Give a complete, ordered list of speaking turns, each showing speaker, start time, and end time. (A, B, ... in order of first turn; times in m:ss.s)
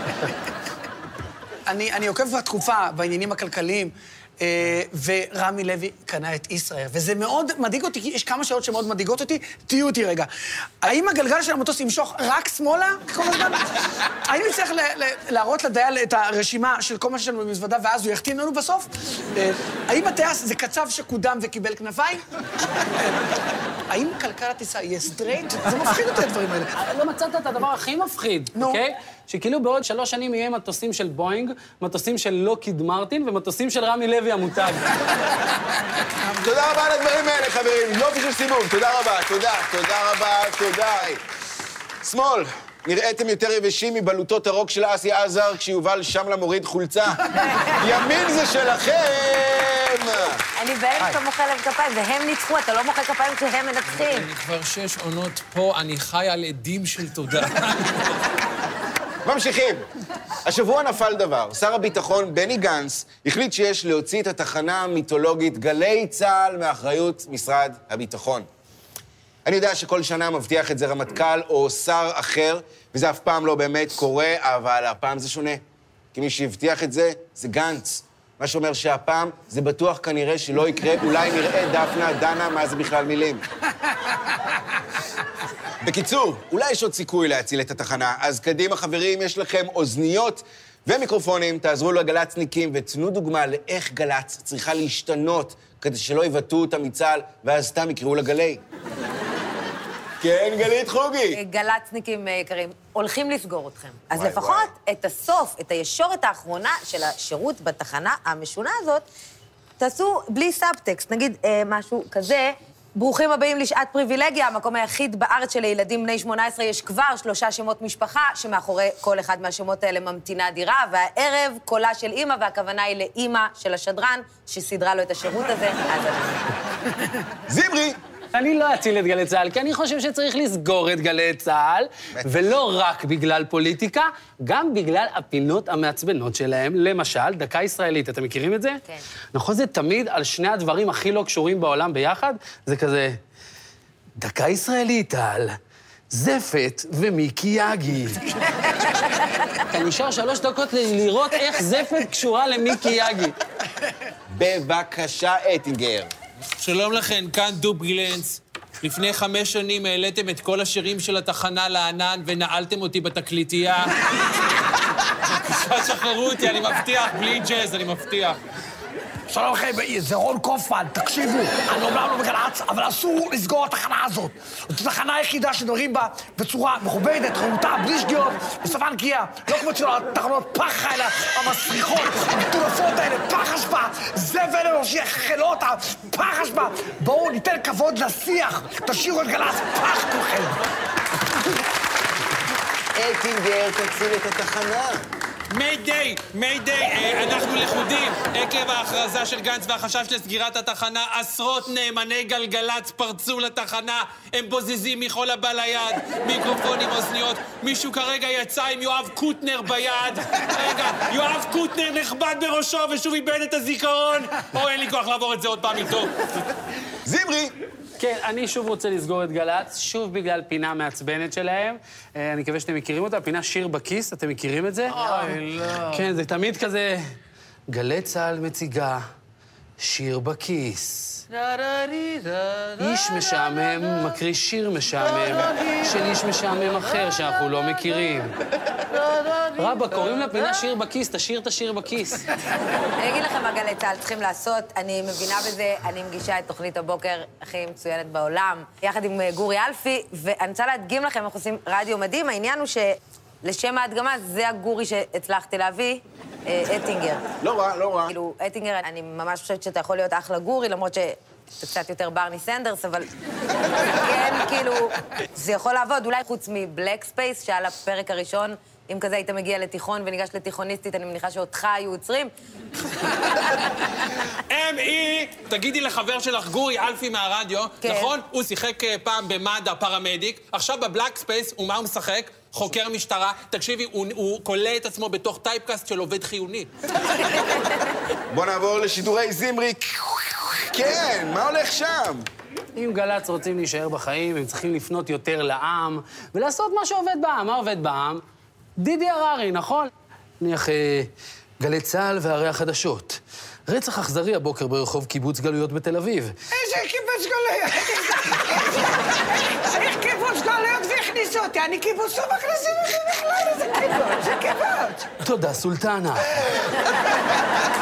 0:01.7-0:10.3 A
0:10.8-0:22.2 A
0:23.9-0:26.7 A
0:26.8-0:34.9 B
0:28.5-0:28.8 A
0:36.3-0:41.2 C
0:42.0-0:50.4 C
0:50.6-0:54.3 D
0:54.0-0:58.2 E
0:59.2-0:59.8 C
1:00.4-1:08.5 C
1:09.4-1:15.6 C
1:16.1-1:23.4 C
1:25.8-1:38.6 C
1:40.2-1:41.4 C
1:41.3-1:49.0 D
1:44.1-1:44.7 C
1:49.8-2:06.5 D
2:07.5-2:08.0 C
2:08.3-2:18.8 B
2:12.1-2:12.5 C
2:19.3-2:23.2 B
2:24.2-2:25.6 B
2:26.1-2:28.4 B
2:29.7-2:33.4 B
2:34.3-2:36.1 C
2:36.6-2:44.1 E
2:45.2-2:48.4 E
2:49.3-3:10.6 A
3:13.0-3:15.0 C
3:15.5-3:36.5 E
3:37.0-3:37.5 C
3:38.0-3:47.0 B
3:45.1-3:46.0 E
3:47.7-3:49.0 B
3:49.8-3:51.2 B
3:52.8-3:58.3 B
3:59.5-4:02.3 B
4:03.0-4:17.2 D
4:17.4-4:18.1 C
4:18.1-4:23.1 D
4:23.8-4:32.3 D
4:34.5-4:46.7 E
4:37.8-4:38.1 D
4:48.3-4:52.3 C
4:52.7-4:58.2 B
4:58.8-5:06.3 B
5:06.5-5:15.1 A
5:15.2-5:16.3 B
5:16.2-5:17.0 C